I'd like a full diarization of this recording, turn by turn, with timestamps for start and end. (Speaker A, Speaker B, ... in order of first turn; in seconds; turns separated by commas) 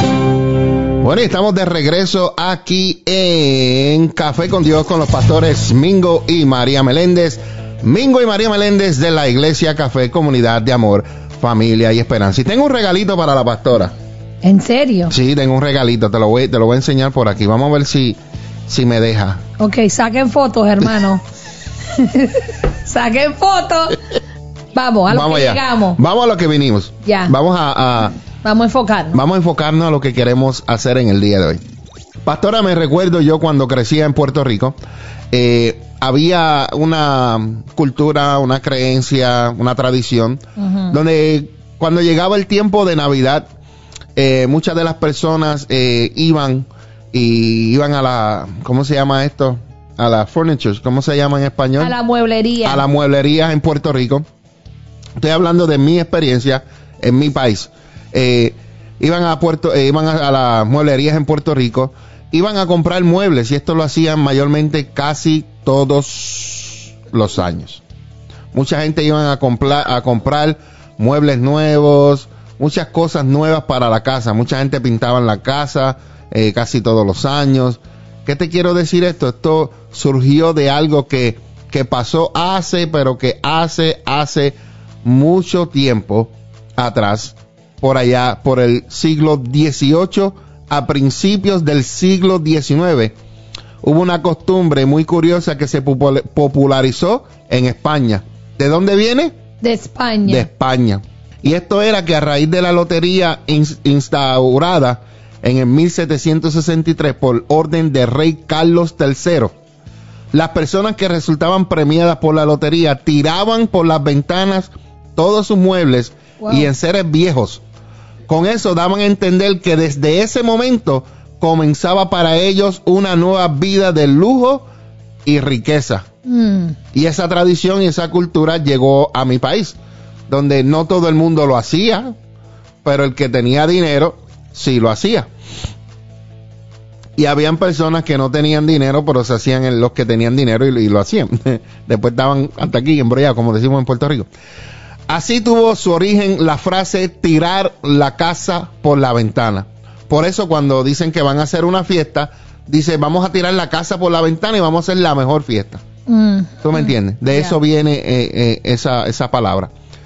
Speaker A: 1.0-13.9, Speaker B: 14.4-15.2, Speaker A: 15.1-19.4, Speaker B: 19.6-21.2, Speaker B: 21.9-24.0, Speaker B: 24.7-26.0, Speaker A: 25.1-28.1, Speaker B: 27.0-27.4, Speaker B: 28.4-29.2, Speaker A: 29.1-31.6, Speaker A: 32.2-34.8, Speaker A: 35.3-43.5, Speaker B: 40.6-41.0, Speaker A: 44.2-52.0, Speaker B: 51.8-52.9, Speaker A: 52.6-54.2, Speaker A: 55.2-67.8, Speaker A: 68.5-93.2, Speaker A: 93.8-99.3, Speaker B: 99.6-100.5, Speaker A: 100.3-109.6, Speaker A: 110.3-117.6, Speaker B: 116.4-116.7, Speaker A: 118.3-124.7, Speaker A: 125.2-126.1, Speaker B: 126.2-126.8, Speaker A: 126.9-129.8, Speaker A: 130.3-132.2, Speaker A: 132.8-135.3, Speaker A: 137.2-144.3, Speaker A: 145.1-155.8, Speaker B: 156.1-157.6, Speaker A: 156.6-159.7